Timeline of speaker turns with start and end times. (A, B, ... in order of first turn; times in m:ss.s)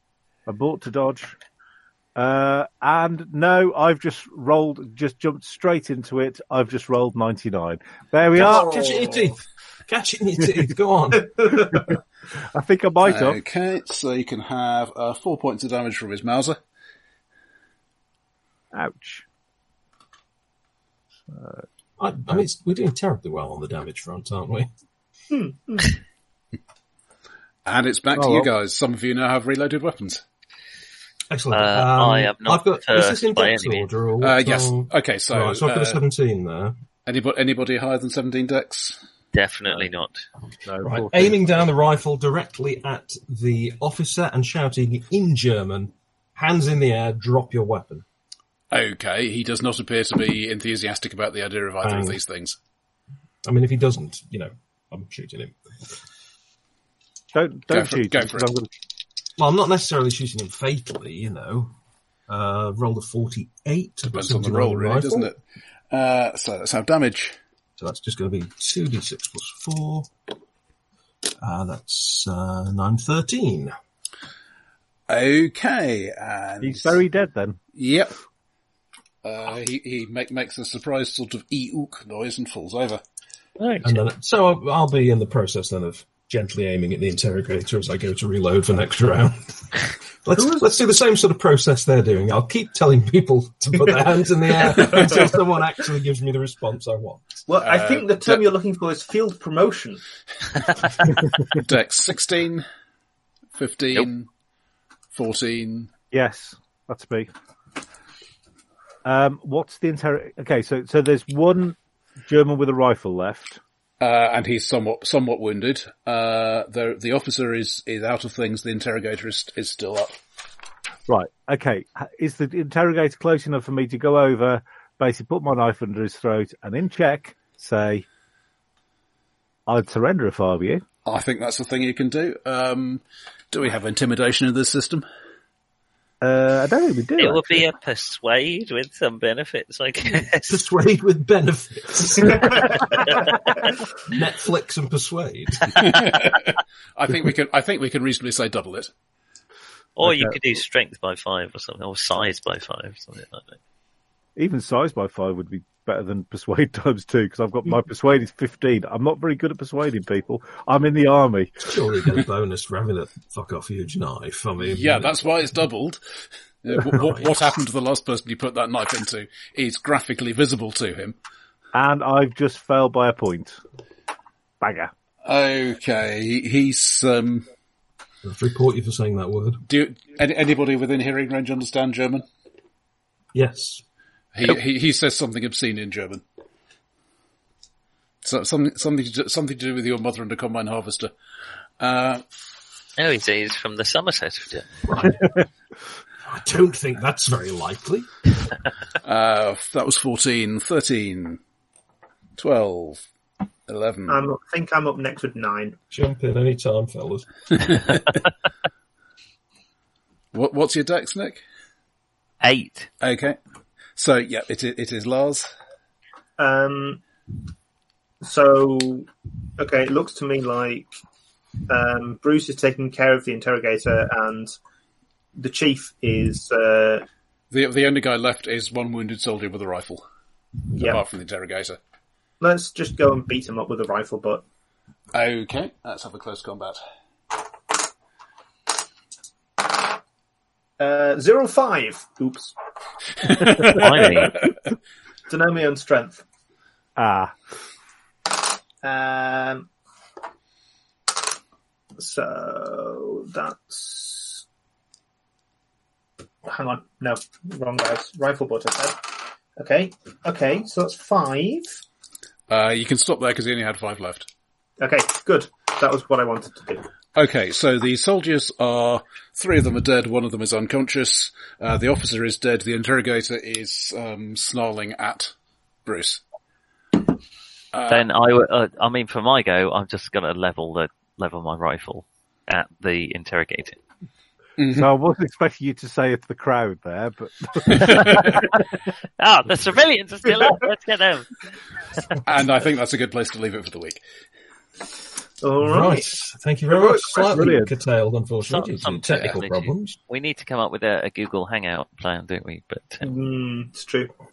0:00.5-0:01.4 A
0:02.2-0:08.7 A
0:08.4-0:11.6 B
0:08.5-0:09.2 C
0:08.8-0:09.1 D
0:11.4-0:11.7 C
0:12.5-0:13.4 A
0:13.0-0:16.6 D
0:18.7-0:19.2 A
0:21.3-0:21.6 A
0:22.0-0:24.7 B
0:25.3-0:26.0 C
0:27.6-0:30.2 D
0:28.1-0:28.5 A
0:31.3-0:36.8 B
0:31.5-0:33.8 E
0:34.2-0:36.0 D
0:37.0-0:39.0 D
0:39.3-0:40.2 E
0:40.6-0:41.4 A
0:40.8-0:48.0 B
0:48.7-0:52.6 D
0:51.8-0:52.2 B
0:53.4-0:55.5 B
0:57.3-0:58.7 A
0:57.7-0:58.5 D
0:59.4-1:01.8 B
1:02.3-1:05.3 B
1:04.1-1:05.4 D
1:05.9-1:07.4 D
1:07.8-1:10.1 B
1:11.4-1:13.7 B
1:15.1-1:17.0 D
1:16.6-1:17.6 A
1:17.7-1:18.1 D
1:19.2-1:23.0 D
1:23.6-1:24.0 E
1:23.8-1:29.7 B
1:30.2-1:37.2 B
1:34.8-1:35.3 C
1:37.5-1:40.0 C
1:37.6-1:38.5 D
1:41.5-1:42.6 D
1:43.5-1:44.3 D
1:45.1-1:45.9 D
1:46.1-1:47.3 A
1:49.0-1:53.6 A
1:54.0-2:00.2 D
2:01.1-2:08.0 A
2:09.7-2:10.8 A
2:11.0-2:15.0 D
2:16.2-2:17.6 A
2:17.2-2:20.6 E
2:20.0-2:22.8 B
2:24.0-2:25.8 B
2:25.7-2:28.9 D
2:30.0-2:33.6 E
2:30.0-2:30.4 A
2:34.4-2:41.6 A
2:41.6-2:45.1 B
2:44.6-2:46.0 D
2:46.6-2:51.2 D
2:46.8-2:47.4 B
2:51.7-2:53.6 A
2:54.6-2:54.9 A
2:55.2-2:57.4 D
2:58.2-2:59.6 B
2:59.6-3:02.2 D
3:03.3-3:03.8 B
3:04.3-3:06.2 D
3:08.2-3:11.1 D
3:11.8-3:12.2 D
3:13.0-3:14.8 E
3:14.9-3:15.2 B
3:16.2-3:18.1 B
3:19.0-3:21.4 D
3:22.4-3:23.0 D
3:23.7-3:24.2 D
3:24.1-3:25.8 C
3:25.9-3:27.8 B
3:27.6-3:28.0 D
3:30.3-3:31.4 D
3:32.4-3:32.9 E
3:33.0-3:33.4 D
3:34.0-3:35.5 D
3:36.4-3:37.0 C
3:38.2-3:40.9 C
3:41.7-3:44.5 C
3:45.4-3:47.0 C
3:47.5-3:50.0 D
3:50.7-3:51.0 C
3:50.7-3:51.8 D
3:52.4-3:54.4 C
3:55.1-3:56.8 D
4:00.8-4:02.5 C
4:03.2-4:04.5 D
4:03.4-4:04.3 A
4:03.6-4:04.4 E
4:05.3-4:06.2 C
4:07.0-4:07.3 A
4:08.8-4:09.7 C
4:12.0-4:14.4 C
4:16.4-4:21.8 C
4:22.5-4:24.3 D
4:24.8-4:26.8 C
4:27.1-4:35.3 D
4:35.8-4:36.2 D
4:37.7-4:38.1 D
4:37.9-4:43.8 E
4:44.6-4:44.9 D
4:44.7-4:48.5 A
4:47.7-4:48.4 D
4:49.2-4:51.4 E
4:52.2-4:54.0 D
4:55.4-4:56.1 C
4:55.6-5:00.0 B
4:56.7-4:57.4 C
4:57.3-4:57.7 A
4:58.4-5:03.0 E
5:03.0-5:04.1 C